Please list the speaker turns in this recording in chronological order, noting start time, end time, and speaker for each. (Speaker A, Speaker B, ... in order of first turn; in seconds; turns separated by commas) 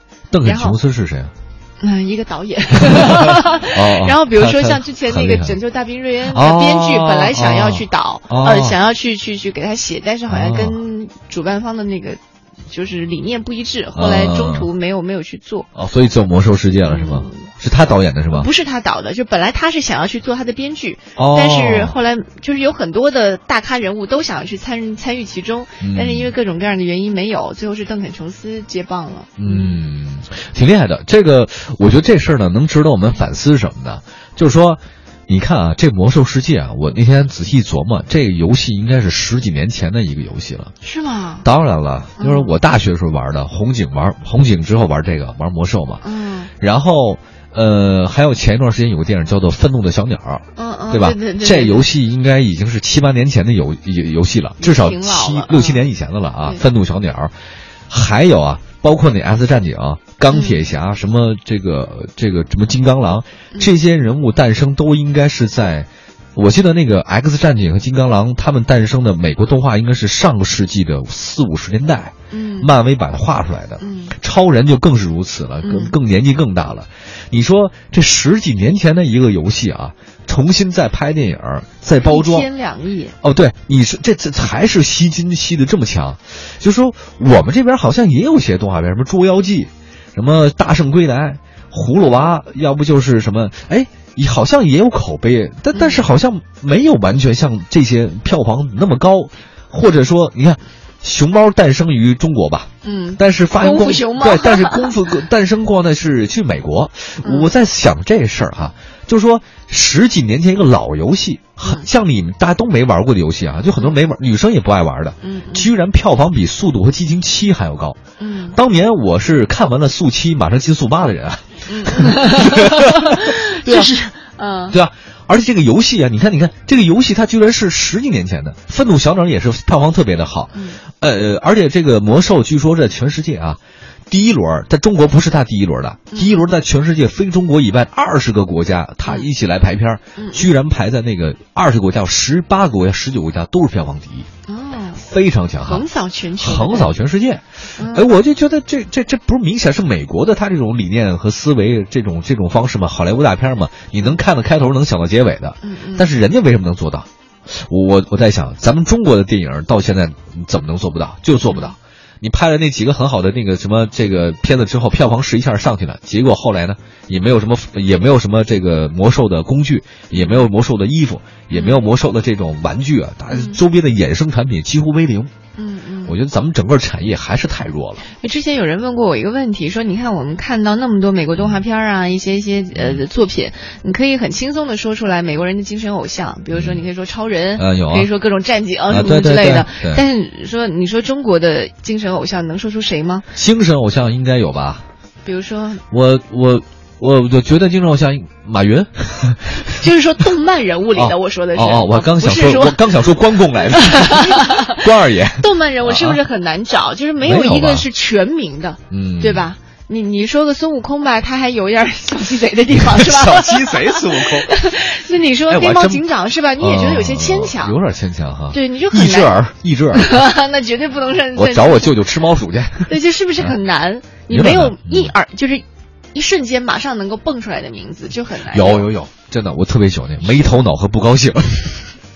Speaker A: 0.3-1.3, Speaker B: 0.4-0.8, Speaker B: 1.8-15.7, Speaker A: 3.7-5.6, Speaker A: 6.3-8.8, Speaker A: 10.3-10.8, Speaker A: 13.9-14.7, Speaker A: 15.7-18.5, Speaker B: 16.9-17.4, Speaker B: 18.3-29.8, Speaker A: 21.1-21.9, Speaker A: 25.8-26.3, Speaker A: 29.4-40.7, Speaker B: 40.8-41.5, Speaker A: 41.4-46.0, Speaker B: 42.2-42.5, Speaker B: 46.0-46.5, Speaker A: 46.6-57.3, Speaker B: 50.5-51.9, Speaker B: 54.6-55.9, Speaker A: 57.9-82.5, Speaker B: 60.3-60.6, Speaker B: 72.3-72.7, Speaker B: 73.8-74.1, Speaker B: 75.6-75.9, Speaker B: 82.0-83.2, Speaker A: 83.2-118.0, Speaker B: 95.7-96.0, Speaker B: 102.8-105.0, Speaker B: 107.2-107.5, Speaker B: 111.6-111.8, Speaker B: 115.2-115.7, Speaker B: 118.2-118.6, Speaker A: 118.5-123.9, Speaker B: 121.7-124.8, Speaker A: 124.7-133.6, Speaker B: 130.5-130.8, Speaker A: 134.1-144.3, Speaker B: 136.1-136.4, Speaker B: 140.2-140.4, Speaker B: 144.5-145.0, Speaker A: 145.0-145.8, Speaker B: 145.6-146.9, Speaker A: 146.4-175.3, Speaker B: 147.8-148.1, Speaker B: 155.6-156.1, Speaker B: 161.5-161.7, Speaker B: 170.1-170.4, Speaker B: 171.5-171.8, Speaker B: 173.3-173.6, Speaker B: 175.6-176.1, Speaker A: 176.0-178.0, Speaker B: 178.2-193.2, Speaker A: 182.7-183.0, Speaker A: 186.5-186.8, Speaker A: 187.6-188.1, Speaker A: 188.9-190.0, Speaker A: 193.3-194.8, Speaker B: 195.2-195.8, Speaker A: 195.9-199.7, Speaker B: 199.7-202.8, Speaker A: 200.9-206.2, Speaker B: 203.7-217.7, Speaker A: 207.2-207.9, Speaker A: 208.9-209.5, Speaker A: 212.7-214.6, Speaker A: 215.5-216.0, Speaker A: 216.6-220.2, Speaker B: 218.5-222.1, Speaker A: 221.3-223.6, Speaker B: 222.9-228.9, Speaker A: 224.3-225.1, Speaker A: 228.5-231.9